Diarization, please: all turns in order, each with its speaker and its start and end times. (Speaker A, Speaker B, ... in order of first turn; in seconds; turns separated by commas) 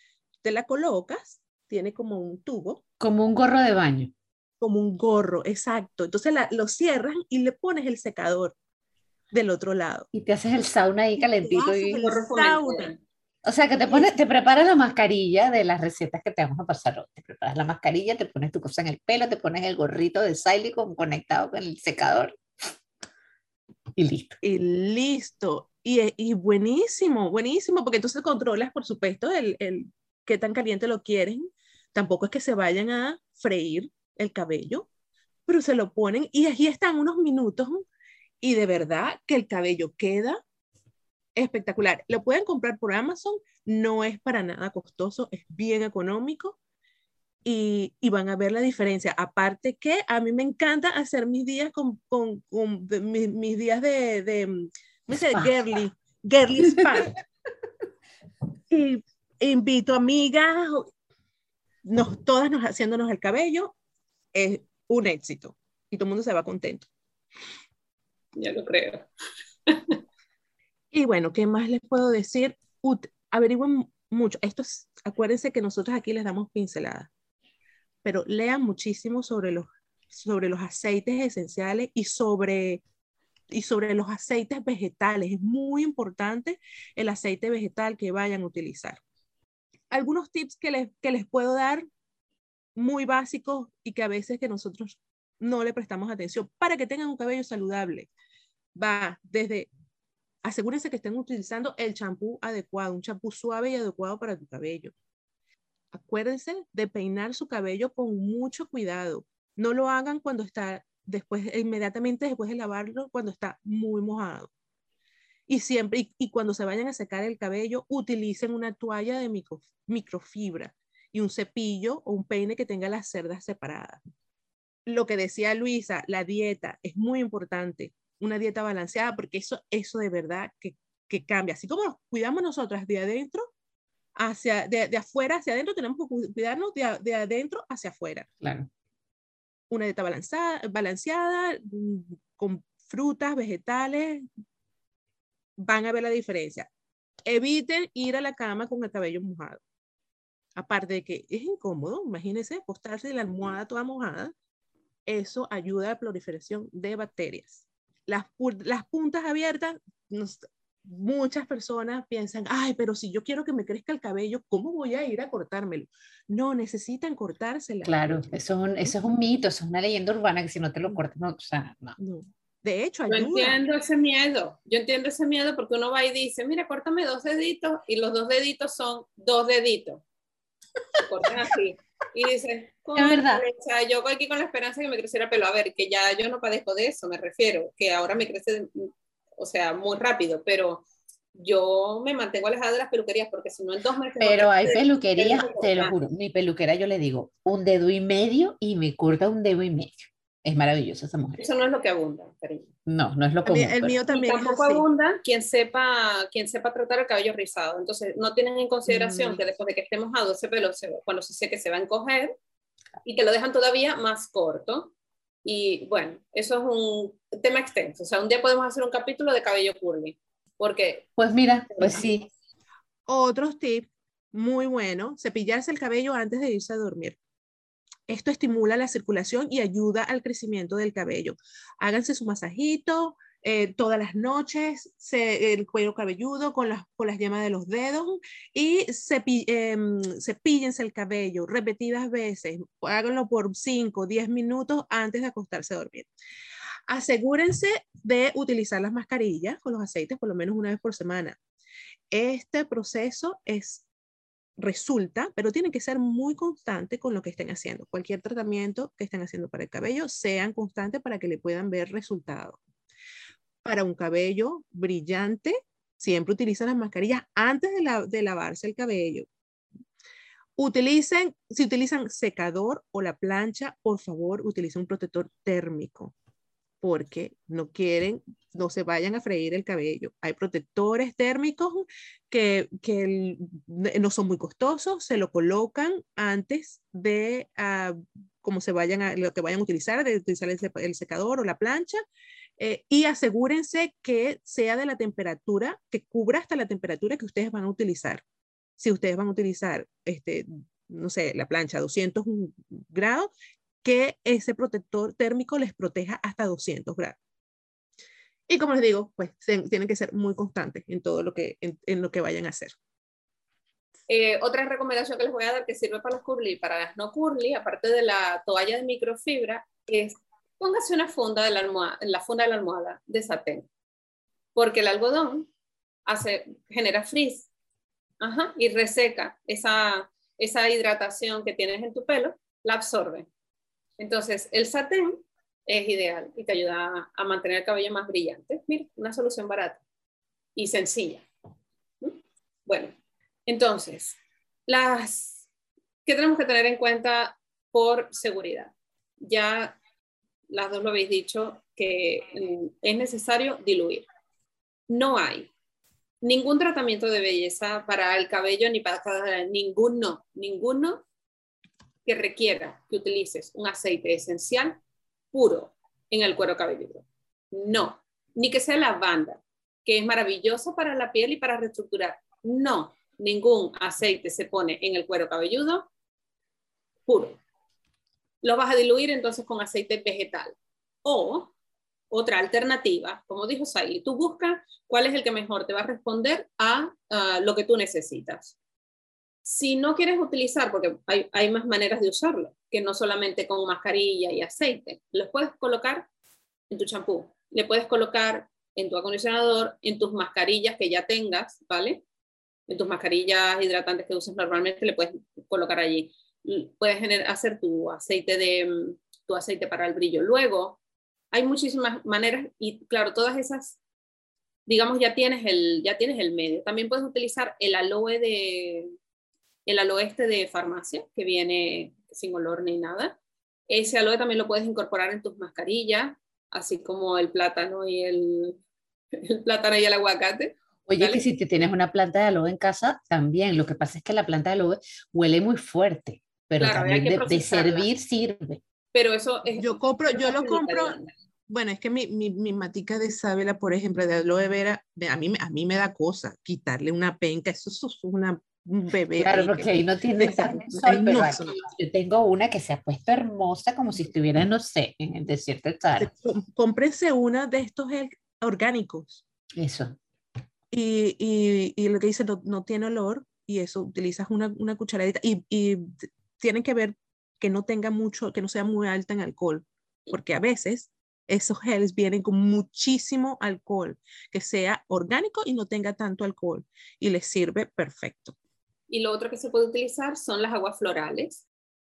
Speaker A: 0.4-2.8, Speaker B: 3.0-4.1, Speaker A: 4.6-8.6, Speaker A: 9.3-10.1, Speaker B: 10.1-12.1, Speaker A: 11.2-12.9, Speaker C: 12.0-13.0, Speaker B: 13.4-22.4, Speaker B: 24.0-24.4, Speaker A: 24.4-34.9, Speaker A: 35.5-37.9, Speaker A: 38.4-40.4, Speaker A: 41.4-46.6, Speaker A: 47.5-57.1, Speaker B: 55.1-55.5, Speaker B: 56.6-57.1, Speaker A: 58.7-60.9, Speaker A: 61.9-63.7, Speaker A: 64.3-66.8, Speaker C: 68.4-69.1, Speaker C: 69.7-70.0, Speaker A: 70.9-77.1, Speaker A: 78.0-82.8, Speaker A: 83.5-89.0, Speaker A: 89.9-91.9, Speaker A: 92.8-98.1, Speaker A: 98.8-99.7, Speaker A: 100.4-104.9, Speaker A: 105.9-114.5, Speaker A: 115.5-124.0, Speaker A: 124.9-133.5, Speaker A: 134.2-138.3, Speaker B: 138.4-138.7, Speaker A: 139.7-144.3, Speaker A: 145.6-146.7, Speaker A: 147.3-149.6, Speaker A: 150.6-154.3, Speaker A: 155.1-168.1, Speaker B: 167.8-172.0, Speaker A: 172.0-173.6, Speaker C: 173.1-180.0, Speaker C: 181.0-195.9, Speaker B: 183.0-183.4, Speaker B: 194.2-201.4, Speaker C: 201.4-202.7, Speaker B: 202.9-204.0, Speaker A: 203.5-204.8, Speaker C: 204.1-212.3, Speaker B: 208.9-209.4, Speaker C: 213.0-221.1, Speaker B: 221.2-222.3, Speaker A: 223.1-227.2, Speaker A: 228.1-246.1, Speaker A: 246.9-251.4, Speaker A: 252.1-253.8, Speaker A: 254.6-262.6, Speaker A: 263.6-269.3, Speaker A: 270.6-276.1, Speaker A: 276.8-292.0, Speaker A: 292.6-298.2, Speaker A: 298.8-303.3, Speaker A: 303.8-307.2, Speaker A: 308.5-312.7, Speaker C: 314.1-323.7, Speaker C: 324.6-325.5, Speaker C: 326.1-327.5, Speaker C: 328.2-333.3, Speaker C: 334.0-339.8, Speaker C: 340.6-341.2, Speaker C: 342.0-342.9, Speaker C: 343.5-345.4, Speaker C: 346.1-349.8, Speaker C: 350.5-354.1, Speaker C: 354.9-355.5, Speaker C: 356.2-361.1, Speaker C: 362.1-364.8, Speaker C: 365.3-375.9, Speaker C: 377.1-377.4, Speaker C: 378.4-381.5, Speaker C: 382.1-388.6, Speaker C: 389.4-396.1, Speaker C: 396.7-402.0, Speaker C: 402.7-410.8, Speaker C: 411.3-413.8, Speaker C: 414.7-418.9, Speaker C: 419.7-423.2, Speaker C: 423.7-428.6, Speaker C: 429.1-431.2, Speaker B: 430.9-438.6, Speaker C: 436.6-437.9, Speaker C: 438.9-441.1, Speaker A: 439.6-441.0, Speaker A: 441.5-451.6, Speaker B: 449.2-456.1, Speaker A: 456.0-459.2, Speaker B: 459.6-460.0, Speaker A: 460.7-478.4, Speaker C: 478.9-481.5